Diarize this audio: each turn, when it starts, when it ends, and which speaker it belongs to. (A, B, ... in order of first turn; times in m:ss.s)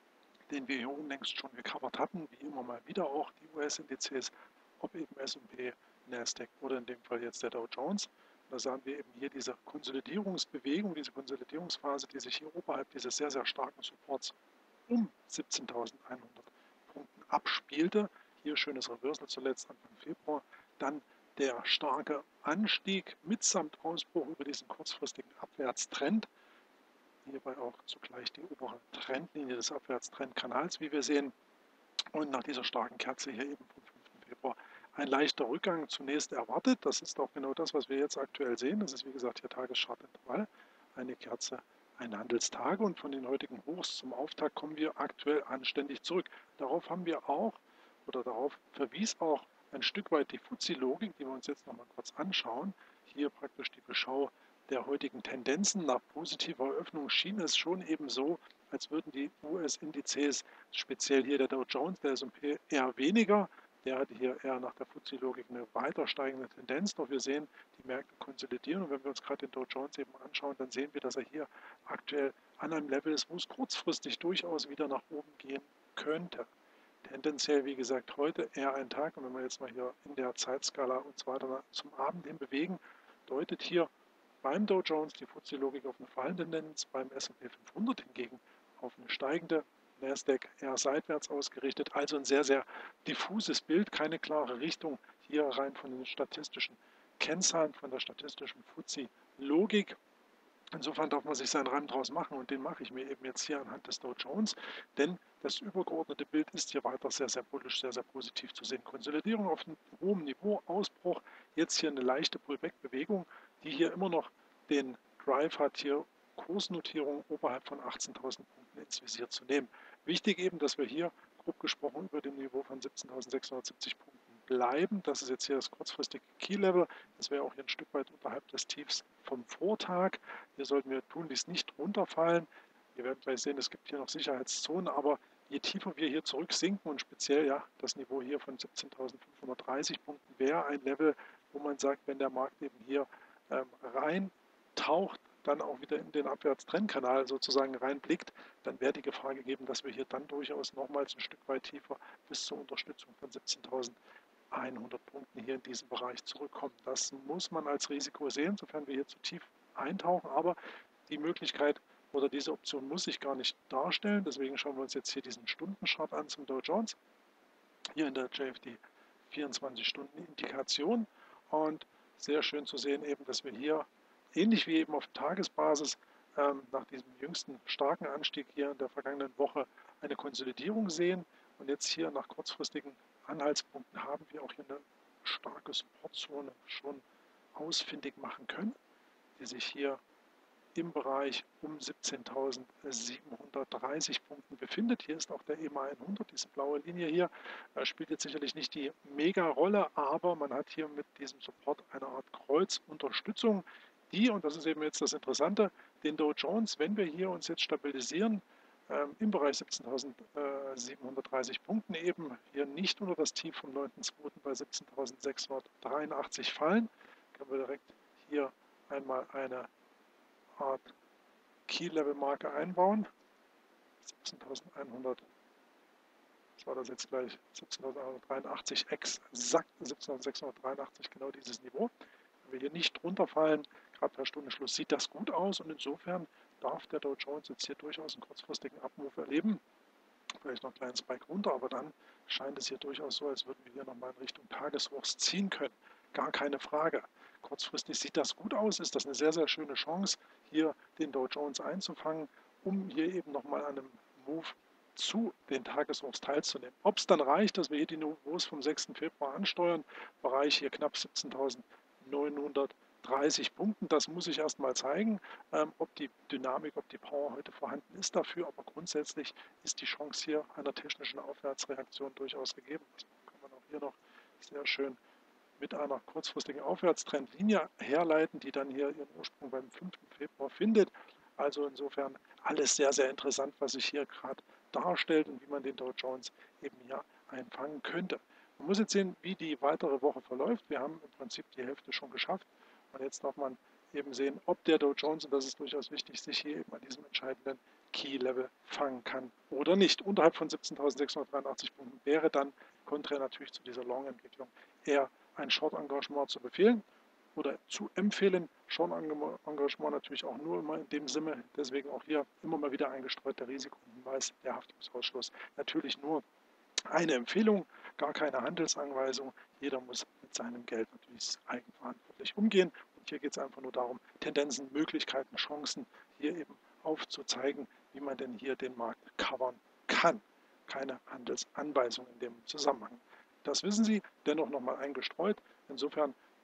0:00.5-0:14.4 A
0:14.9-0:26.3 A
0:27.2-0:31.3 A
0:32.1-1:16.5 A
1:17.0-1:23.9 A
1:24.4-1:40.0 A
1:40.7-2:34.0 A
2:34.5-2:47.0 A
2:48.0-3:07.0 A
3:07.6-3:08.8 A
3:09.4-3:10.0 A
3:10.8-3:39.7 A
3:40.6-3:40.9 A
3:41.7-3:43.1 A
3:44.0-3:45.3 A
3:46.6-3:51.9 A
3:52.4-3:59.6 A
4:00.4-4:35.0 A
4:35.6-5:06.8 A
5:07.4-5:16.2 A
5:16.8-5:36.2 A